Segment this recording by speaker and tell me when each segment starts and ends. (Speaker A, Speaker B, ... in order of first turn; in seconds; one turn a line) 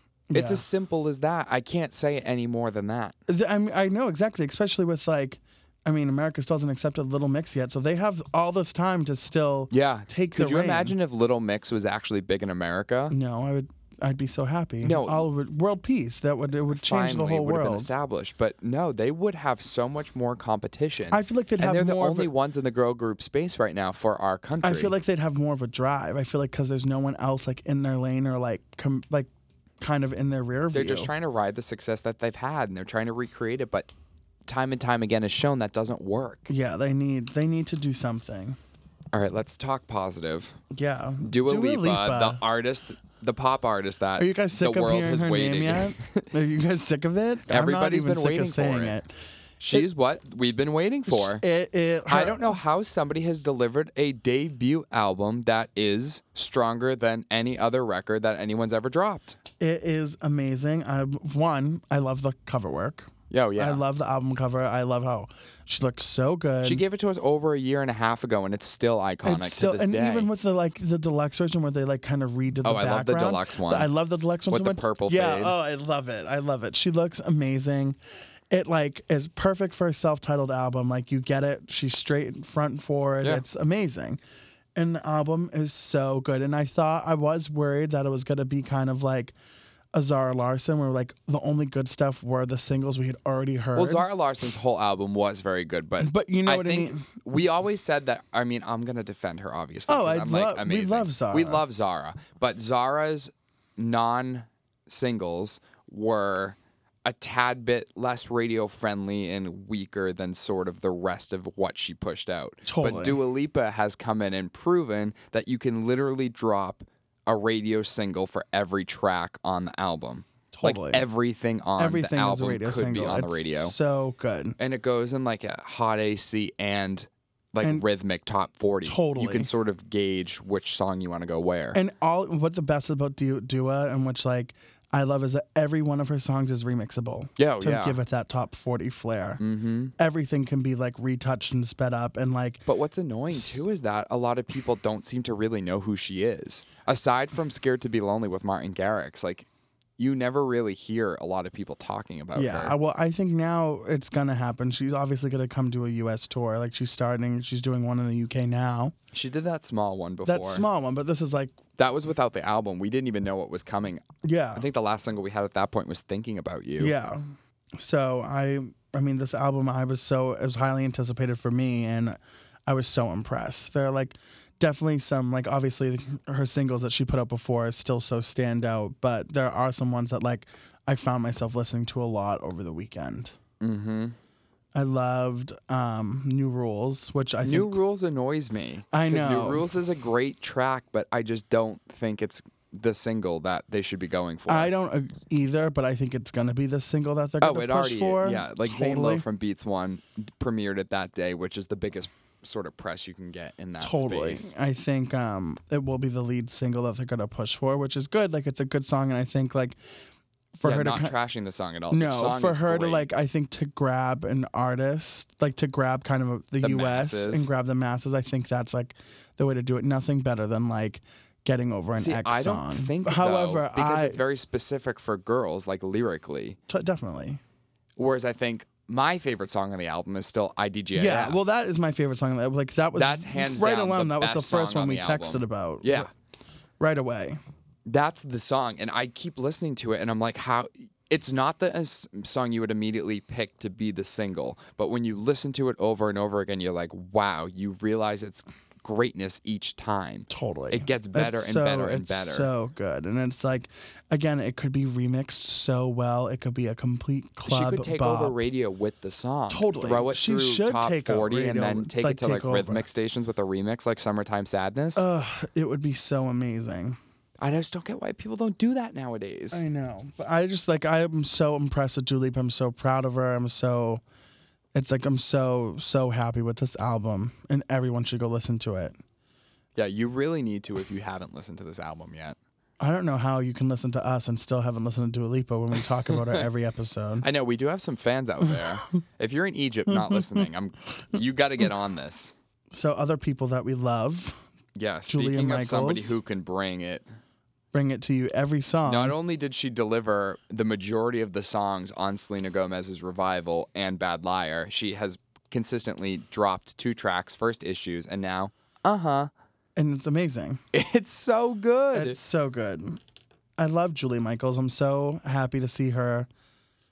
Speaker A: 0.3-0.6
Speaker B: 0.3-3.1
Speaker A: 3.3-10.9
Speaker B: 9.7-13.1
Speaker A: 13.1-17.9
Speaker B: 14.8-15.2
Speaker B: 16.7-24.9
Speaker A: 21.1-22.3
Speaker A: 24.6-29.3
Speaker A: 29.8-31.1
Speaker B: 30.7-33.9
Speaker B: 34.5-36.5
Speaker A: 36.5-38.6
Speaker B: 39.1-40.6
Speaker A: 40.7-42.4
Speaker B: 41.2-46.3
Speaker A: 44.2-49.1
Speaker B: 47.5-49.0
Speaker B: 49.6-51.4
Speaker A: 51.1-52.6
Speaker B: 52.1-59.4
Speaker A: 59.6-66.8
Speaker B: 63.3-63.8
Speaker B: 66.6-70.3
Speaker A: 69.2-78.0
Speaker B: 72.6-73.9
Speaker B: 74.5-75.5
Speaker A: 78.5-84.2
Speaker A: 84.7-89.3
Speaker A: 89.9-94.0
Speaker B: 93.7-123.7
Speaker A: 96.0-97.0
Speaker A: 99.9-101.6
Speaker A: 112.7-113.2
Speaker A: 120.5-121.0
Speaker A: 121.8-124.6
Speaker B: 124.6-131.8
Speaker A: 128.8-129.5
Speaker A: 131.7-139.4
Speaker B: 137.4-138.0
Speaker B: 139.4-139.9
Speaker A: 140.0-142.7
Speaker B: 142.7-152.7
Speaker A: 143.3-143.6
Speaker A: 152.3-158.9
Speaker B: 159.1-160.7
Speaker A: 160.2-161.6
Speaker B: 161.8-166.9
Speaker A: 164.2-164.6
Speaker A: 166.8-183.3
Speaker B: 183.6-184.2
Speaker A: 184.7-187.8
Speaker B: 187.4-194.7
Speaker A: 188.9-189.6
Speaker A: 194.5-199.2
Speaker B: 197.4-204.5
Speaker A: 203.8-209.8
Speaker A: 210.5-211.1
Speaker B: 210.6-213.1
Speaker A: 211.9-224.2
Speaker B: 216.6-217.5
Speaker B: 222.0-226.6
Speaker A: 226.7-227.4
Speaker B: 228.0-231.4
Speaker A: 230.9-236.1
Speaker B: 232.9-236.1
Speaker A: 236.8-237.4
Speaker B: 237.8-252.5
Speaker A: 250.3-258.4
Speaker B: 257.4-265.1
Speaker A: 259.5-262.9
Speaker A: 264.9-267.0
Speaker B: 267.4-269.6
Speaker A: 269.5-274.0
Speaker A: 274.7-278.9
Speaker B: 279.8-282.4
Speaker A: 282.8-287.2
Speaker B: 286.1-286.4
Speaker B: 287.2-292.3
Speaker A: 289.9-290.4
Speaker A: 292.7-294.4
Speaker B: 294.8-297.1
Speaker A: 295.1-296.2
Speaker A: 297.7-299.1
Speaker B: 298.9-309.3
Speaker A: 309.8-310.6
Speaker B: 310.7-312.2
Speaker A: 311.9-313.0
Speaker A: 313.6-316.3